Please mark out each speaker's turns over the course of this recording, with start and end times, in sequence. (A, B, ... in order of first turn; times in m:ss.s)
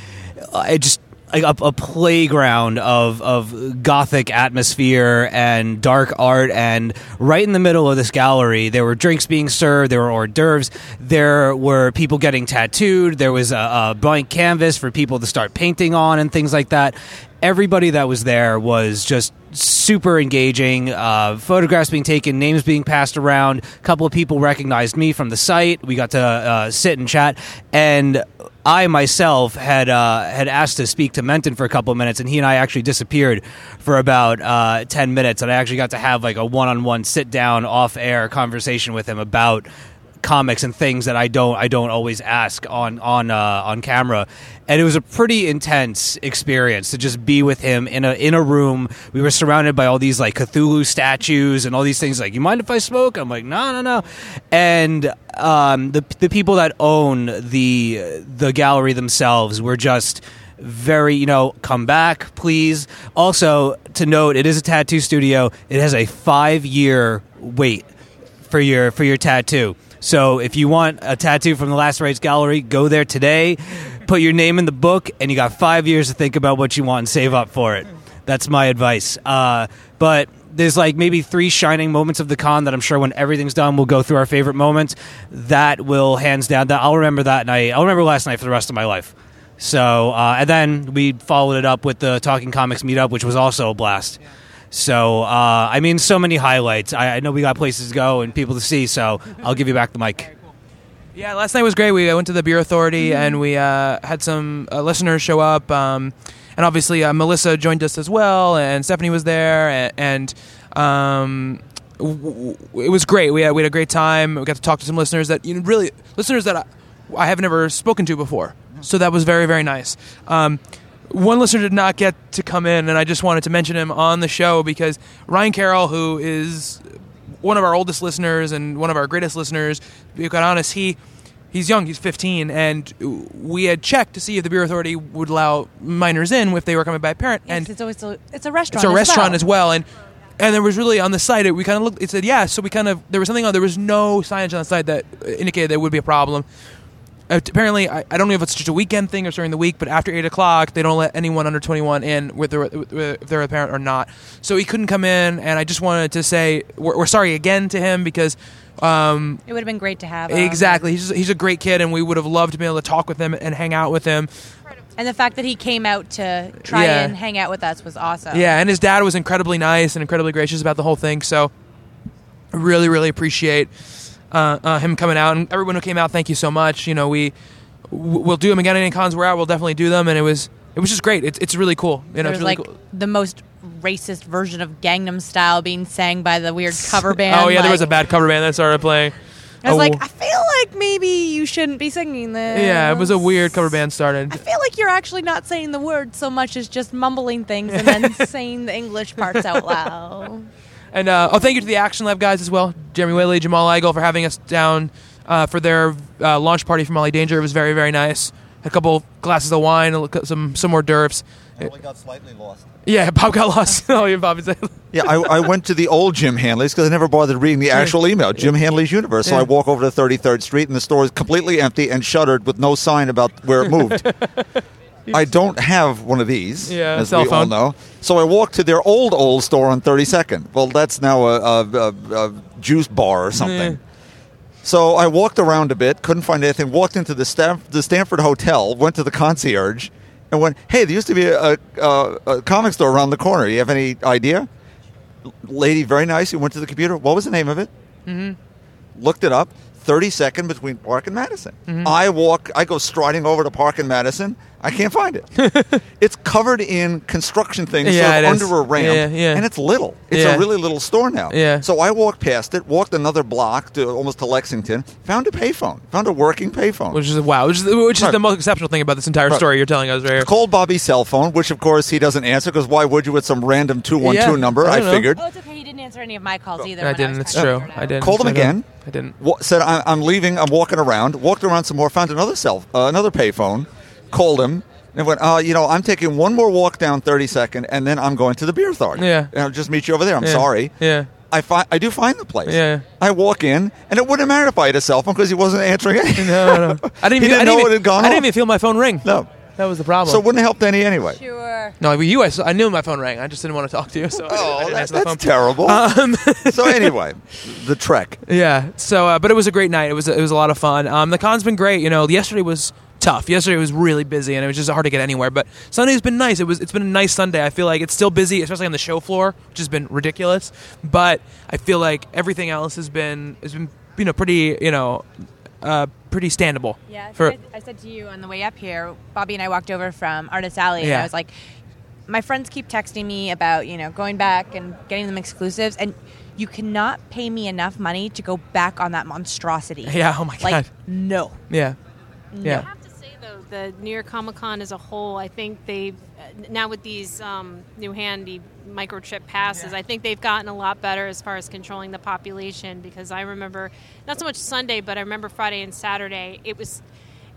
0:00.4-0:39.7 A
0:40.2-1:07.8 A
1:08.5-1:34.2 A
1:34.7-1:40.3 A
1:41.2-2:11.0 B
1:43.0-1:43.4 C
2:11.5-2:17.7 B
2:17.5-2:19.4 C
2:18.7-2:26.5 B
2:27.3-2:39.4 B
2:39.5-2:40.9 C
2:40.3-2:44.3 B
2:44.8-2:45.4 D
2:45.0-2:48.5 C
2:46.6-2:47.2 B
2:48.3-2:51.5 B
2:52.5-2:53.7 B
2:54.3-2:57.3 B
2:57.9-3:02.7 B
3:02.2-3:08.0 C
3:06.7-3:10.0 B
3:09.6-3:20.5 C
3:12.5-3:14.4 B
3:17.9-3:18.2 B
3:20.9-3:31.2 B
3:31.6-3:32.7 E
3:32.8-3:35.4 B
3:34.9-3:44.2 E
3:37.8-3:38.5 B
3:43.9-3:44.4 B
3:45.1-3:53.8 E
3:46.7-3:47.5 B
3:53.4-3:53.8 B
3:54.6-4:04.5 E
4:05.2-4:07.7 E
4:08.1-4:08.4 B
4:09.0-4:15.5 E
4:11.7-4:11.9 B
4:15.4-4:15.8 B
4:16.0-4:27.0 E
4:17.8-4:19.4 B
4:20.1-4:20.5 B
4:21.3-4:21.6 B
4:26.9-4:30.3 B
4:30.1-4:35.2 E
4:34.0-4:35.1 B
4:35.1-4:38.1 C
4:36.8-4:39.1 B
4:37.3-4:58.3 E
4:49.0-4:49.3 B
4:50.2-4:51.1 B
4:52.5-4:52.8 B
4:56.2-5:00.2 B
4:59.0-4:59.3 E
5:00.0-5:01.2 E
5:01.1-5:01.8 C
5:01.8-5:06.9 B
5:04.3-5:05.8 E
5:06.4-5:08.2 E
5:08.2-5:27.4 B
5:26.9-5:31.4 C
5:30.8-5:31.1 B
5:32.1-5:41.4 C
5:39.8-5:40.7 B
5:41.5-5:41.8 B
5:42.3-5:42.7 C
5:42.5-5:56.8 D
5:49.5-5:49.7 B